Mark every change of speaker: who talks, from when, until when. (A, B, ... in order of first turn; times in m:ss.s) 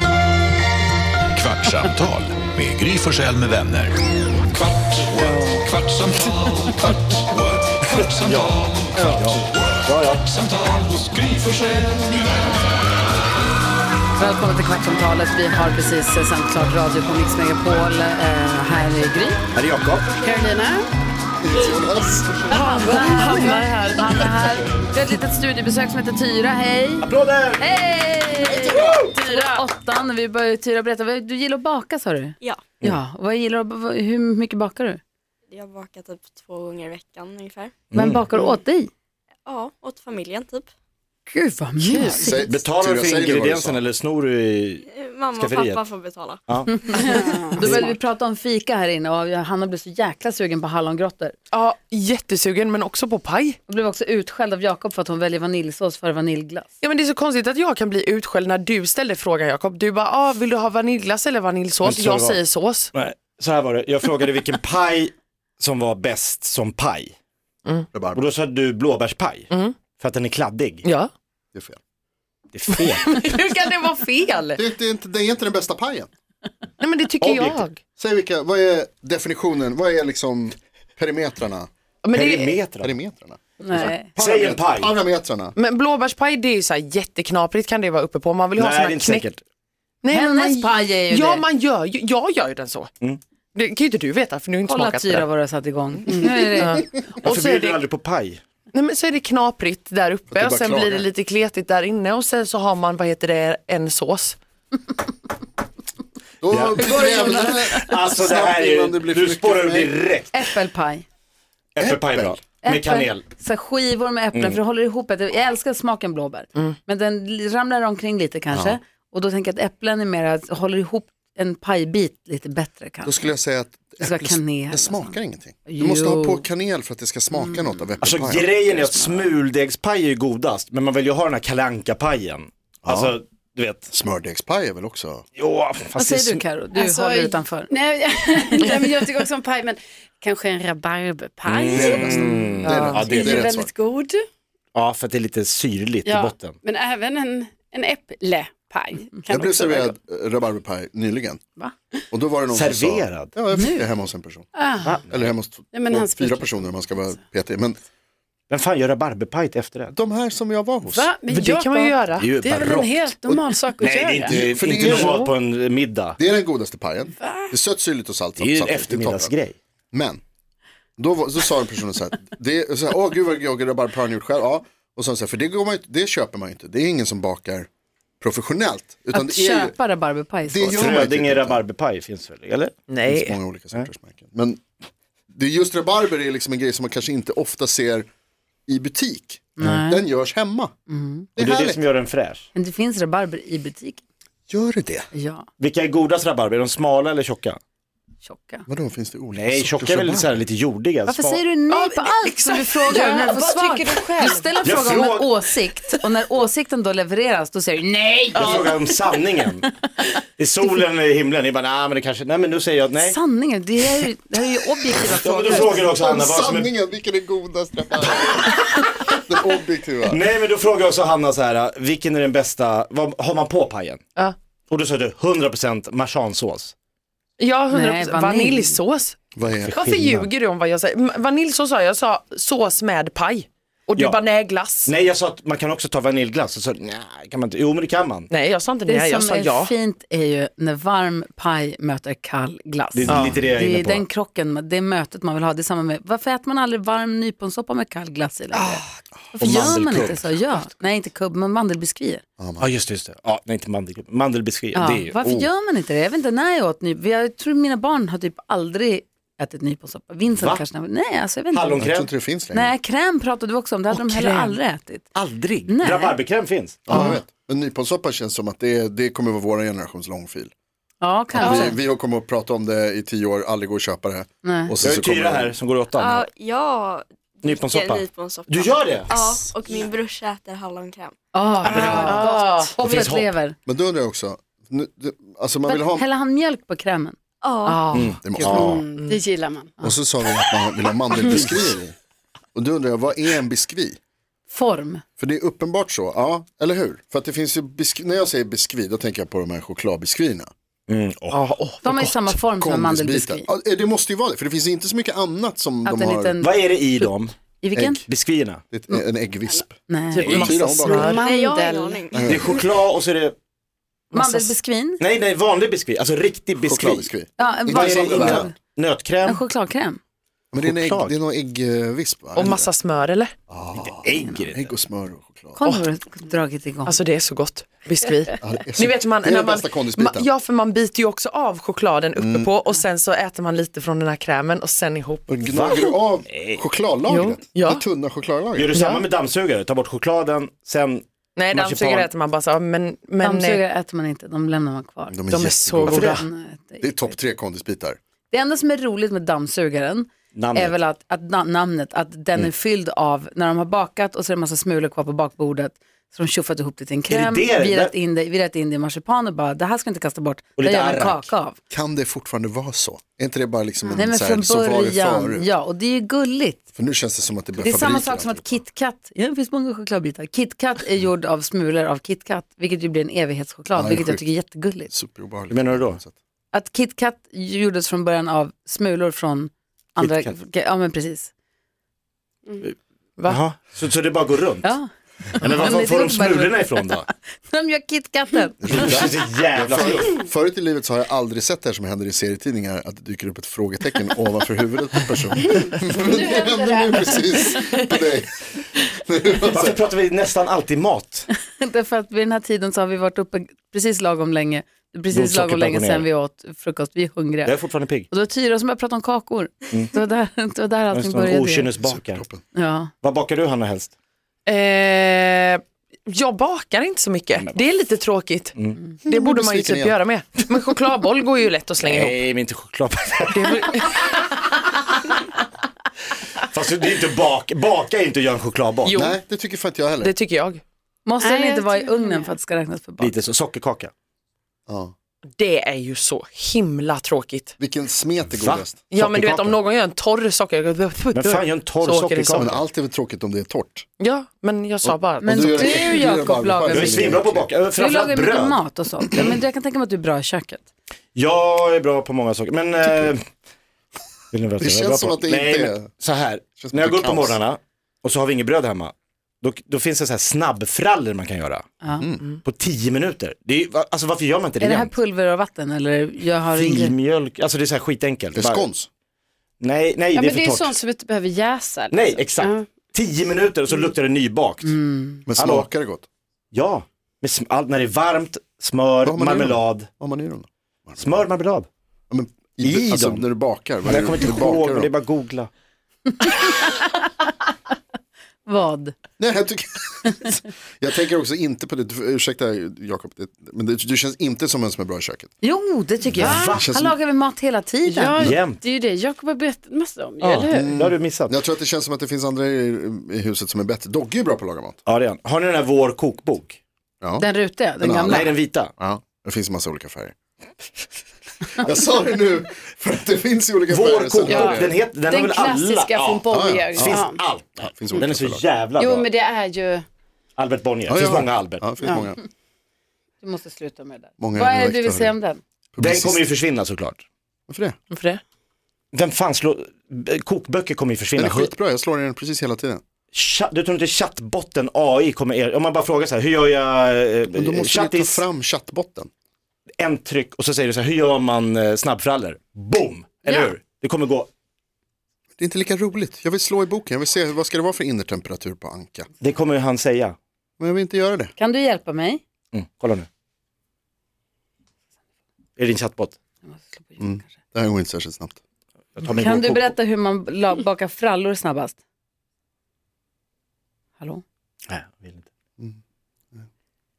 0:01.3-0:03.9 A
0:04.5-0:08.5 A
0:08.0-0:10.3 B
0:09.0-0:09.2 C
0:10.4-0:12.3 A
0:14.2-0:19.4 C
0:19.6-0:20.2 B
0:20.2-0:20.8 D
0:21.4-0:22.6 E
0:22.5-0:23.6 D
0:22.5-0:35.0 C
0:22.8-0:24.4 F
0:27.0-0:27.7 B
0:28.6-0:29.6 D
0:35.5-0:37.8 G
0:37.9-0:38.2 B
0:38.0-0:38.9 C
0:39.4-0:40.7 G
0:41.3-0:42.4 C
0:42.0-0:43.8 E
0:42.5-0:45.9 B
0:44.9-0:46.9 G
0:46.5-0:46.9 B
0:46.8-0:51.4 C
0:47.0-0:47.6 D
0:47.6-0:47.9 B
0:51.5-0:53.6 F
0:53.7-0:56.7 C
0:56.8-1:02.9 F
1:01.8-1:02.4 B
1:02.9-1:07.1 B
1:07.9-1:08.2 E
1:08.1-1:10.8 B
1:09.5-1:09.8 F
1:10.8-1:11.1 F
1:11.5-1:11.8 E
1:12.5-1:13.3 B
1:12.7-1:14.6 F
1:14.6-1:16.1 E
1:16.8-1:17.8 F
1:17.2-1:17.7 B
1:18.0-1:21.7 E
1:22.0-1:22.6 F
1:22.1-1:22.9 B
1:22.8-1:25.5 E
1:23.6-1:24.1 C
1:24.2-1:25.0 B
1:25.6-1:29.3 F
1:28.6-1:29.4 B
1:30.0-1:32.9 F
1:30.1-1:31.4 C
1:33.6-1:35.3 F
1:34.6-1:37.0 C
1:36.5-1:37.8 F
1:37.2-1:38.4 B
1:38.7-1:44.4 F
1:40.3-1:41.0 E
1:46.4-1:50.0 E
1:46.5-1:50.4 B
1:46.8-1:47.8 C
1:50.3-1:51.0 C
1:51.8-1:53.2 B
1:51.8-1:52.4 E
1:52.6-2:03.4 C
1:58.5-1:58.8 E
2:03.0-2:09.3 E
2:04.0-2:06.4 C
2:07.3-2:07.6 C
2:08.0-2:13.9 B
2:12.8-2:13.2 E
2:13.9-2:15.2 E
2:15.4-2:16.4 B
2:16.0-2:17.7 C
2:16.8-2:24.2 D
2:21.5-2:23.5 B
2:21.7-2:23.7 E
2:22.6-2:23.0 F
2:24.8-2:26.6 B
2:26.0-2:30.0 D
2:29.3-2:31.4 E
2:32.1-2:34.5 E
2:32.5-2:33.3 B
2:33.5-2:33.9 C
2:34.6-2:35.0 D
2:34.8-2:35.3 B
2:35.1-2:37.8 E
2:35.7-2:37.0 D
2:38.5-2:39.9 B
2:39.9-2:41.1 E
2:40.9-2:44.4 D
2:41.3-2:42.3 F
2:42.2-2:43.1 B
2:43.8-2:46.2 B
2:44.2-2:45.3 E
2:44.8-2:45.3 F
2:46.2-2:49.3 E
2:47.2-2:47.5 D
2:48.4-2:49.6 B
2:49.9-2:50.2 E
2:51.0-2:57.7 E
2:58.2-2:59.8 E
2:59.1-3:01.0 C
3:00.4-3:01.6 E
3:00.7-3:02.7 B
3:02.9-3:03.4 F
3:03.1-3:04.6 E
3:05.3-3:08.1 E
3:08.7-3:10.7 E
3:09.6-3:10.0 C
3:10.9-3:11.3 C
3:11.4-3:11.8 E
3:11.4-3:12.5 B
3:12.6-3:14.0 C
3:14.5-3:15.1 E
3:15.1-3:15.5 C
3:15.6-3:17.6 B
3:18.2-3:18.7 C
3:18.7-3:20.4 E
3:19.3-3:21.4 B
3:21.1-3:28.7 C
3:21.8-3:23.2 F
3:22.8-3:24.5 D
3:24.6-3:25.3 B
3:28.4-3:29.7 B
3:30.4-3:33.2 B
3:33.0-3:35.9 C
3:35.0-3:36.7 B
3:35.8-3:40.2 E
3:40.1-3:44.0 B
3:44.7-3:46.7 B
3:47.4-3:54.9 F
3:47.7-3:48.8 C
3:49.4-3:50.3 E
3:54.9-3:58.3 B
3:58.3-3:59.8 F
3:58.9-4:12.2 C
4:02.9-4:04.1 B
4:03.1-4:03.4 F
4:08.5-4:08.8 F
4:09.4-4:10.2 E
4:09.4-4:10.3 B
4:12.4-4:12.7 E
4:12.6-4:15.2 B
4:14.8-4:21.8 C
4:15.2-4:15.5 E
4:20.3-4:20.6 B
4:21.5-4:22.1 B
4:21.8-4:22.8 E
4:22.5-4:25.1 C
4:23.9-4:24.6 B
4:25.2-4:27.1 B
4:25.7-4:26.2 C
4:26.9-4:30.5 E
4:26.9-4:27.2 C
4:31.0-4:31.8 C
4:31.3-4:35.6 E
4:34.4-4:34.7 C
4:34.8-4:36.3 B
4:36.0-4:41.2 G
4:37.4-4:39.2 B
4:41.3-4:43.6 C
4:41.6-4:42.5 D
4:41.7-4:42.1 B
4:42.1-4:42.7 F
4:42.8-4:43.3 B
4:43.7-4:46.1 E
4:45.7-4:48.6 C
4:47.4-4:47.9 G
4:47.9-4:48.8 B
4:48.2-4:48.8 E
4:48.6-4:49.7 D
4:49.8-4:52.0 E
4:51.3-4:51.6 B
4:52.6-4:54.0 E
4:54.5-4:55.0 C
4:55.2-5:00.5 E
5:00.9-5:01.4 B
5:01.3-5:02.4 F
5:01.8-5:03.5 C
5:02.6-5:06.4 E
5:05.8-5:08.0 C
5:06.4-5:07.3 B
5:07.8-5:08.0 E
5:08.0-5:08.6 B
5:08.7-5:11.1 E
5:09.9-5:10.3 C
5:10.1-5:10.8 B
5:10.3-5:11.2 F
5:10.9-5:12.2 D
5:11.2-5:12.4 G
5:12.1-5:12.6 E
5:12.2-5:13.4 B
5:14.1-5:14.6 F
5:14.1-5:15.0 C
5:15.0-5:17.1 B
5:16.6-5:18.5 E
5:17.4-5:18.5 C
5:17.7-5:19.4 B
5:19.2-5:20.0 C
5:20.5-5:22.7 E
5:20.6-5:21.2 B
5:22.4-5:23.3 F
5:23.5-5:25.6 E
5:23.8-5:24.7 B
5:25.6-5:27.0 C
5:26.8-5:35.3 F
5:28.4-5:30.3 E
5:32.2-5:32.5 E
5:35.3-5:38.8 E
5:35.5-5:36.6 B
5:37.1-5:37.8 F
5:38.6-5:42.1 B
5:38.7-5:39.0 F
5:41.4-5:43.6 F
5:43.2-5:45.2 C
5:45.1-5:46.2 E
5:45.3-5:46.2 F
5:45.9-5:47.1 C
5:45.9-5:46.2 B
5:46.8-5:48.0 E
5:48.3-6:01.6 C
5:50.3-5:50.8 B
5:57.1-5:57.9 B
6:00.6-6:01.3 B
6:01.7-6:05.5 E
6:04.0-6:06.6 C
6:06.7-6:08.6 E
6:07.6-6:14.9 C
6:13.8-6:14.3 E
6:14.9-6:16.1 E
6:15.5-6:16.0 B
6:16.5-6:21.3 C
6:20.0-6:20.3 B
6:23.3-6:24.8 B
6:24.6-6:29.0 C
6:25.4-6:27.1 B
6:28.6-6:39.9 E
6:28.7-6:30.2 B
6:35.6-6:37.6 D
6:39.5-6:41.3 B
6:41.4-6:47.6 C
6:45.1-6:46.1 B
6:47.4-6:48.1 B
6:48.1-6:51.7 C
6:50.9-6:52.2 B
6:51.8-6:52.4 E
6:52.6-6:52.9 C
6:53.0-6:53.9 B
6:54.5-7:02.2 F
6:59.1-7:00.0 E
7:01.8-7:04.1 B
7:03.3-7:04.0 F
7:06.4-7:09.0 B
7:08.8-7:09.2 F
7:08.9-7:10.1 E
7:10.0-7:10.6 F
7:11.0-7:13.2 C
7:11.2-7:12.3 D
7:13.0-7:13.9 B
7:14.7-7:14.9 E
7:15.4-7:17.5 F
7:17.6-7:18.9 E
7:18.3-7:19.6 B
7:18.9-7:22.5 F
7:21.1-7:22.6 B
7:22.4-7:23.9 E
7:24.0-7:25.8 F
7:24.8-7:27.5 E
7:25.2-7:27.2 C
7:26.7-7:28.6 B
7:27.8-7:30.7 C
7:31.2-7:33.2 B
7:34.3-7:41.7 B
7:34.6-7:35.9 E
7:36.6-7:37.4 E
7:41.8-7:42.1 C
7:42.0-7:42.2 E
7:42.4-7:44.9 B
7:44.6-7:47.0 C
7:46.6-7:48.7 B
7:48.4-7:48.9 E
7:49.6-7:50.8 B
7:50.2-7:52.7 D
7:51.9-7:54.8 B
7:54.6-7:55.2 C
7:55.3-7:56.1 E
7:55.4-7:55.7 B
7:56.5-7:59.9 B
7:59.0-8:01.3 E
8:01.0-8:01.7 B
8:02.1-8:04.9 E
8:02.6-8:03.3 B
8:03.8-8:05.5 B
8:06.2-8:07.0 C
8:08.4-8:09.0 C
8:09.2-8:15.3 E
8:15.4-8:18.3 C
8:16.2-8:16.7 B
8:16.2-8:16.6 D
8:16.4-8:17.0 E
8:17.9-8:20.7 D
8:18.2-8:18.6 B
8:20.2-8:21.4 B
8:20.5-8:24.8 E
8:24.9-8:26.6 B
8:27.0-8:27.3 E
8:27.2-8:28.4 C
8:27.8-8:30.2 E
8:28.1-8:28.7 B
8:31.6-8:34.8 E
8:33.7-8:39.1 B
8:34.3-8:37.2 D
8:36.3-8:37.0 E
8:37.6-8:38.4 E
8:38.8-8:39.8 D
8:40.4-8:41.6 B
8:40.9-8:42.2 E
8:43.2-8:45.4 C
8:44.2-8:45.2 E
8:45.8-8:46.2 E
8:45.8-8:47.0 B
8:47.5-8:47.8 E
8:47.9-8:48.2 F
8:48.9-8:51.5 B
8:51.2-8:52.8 E
8:53.1-8:58.3 B
8:57.4-8:59.1 E
8:59.8-9:04.3 B
9:05.4-9:09.1 E
9:09.2-9:10.2 B
9:10.6-9:11.3 E
9:11.4-9:12.2 C
9:12.5-9:13.1 B
9:15.6-9:16.2 B
9:16.5-9:17.2 C
9:17.0-9:18.4 E
9:19.0-9:19.7 B
9:19.1-9:21.8 C
9:24.7-9:25.3 B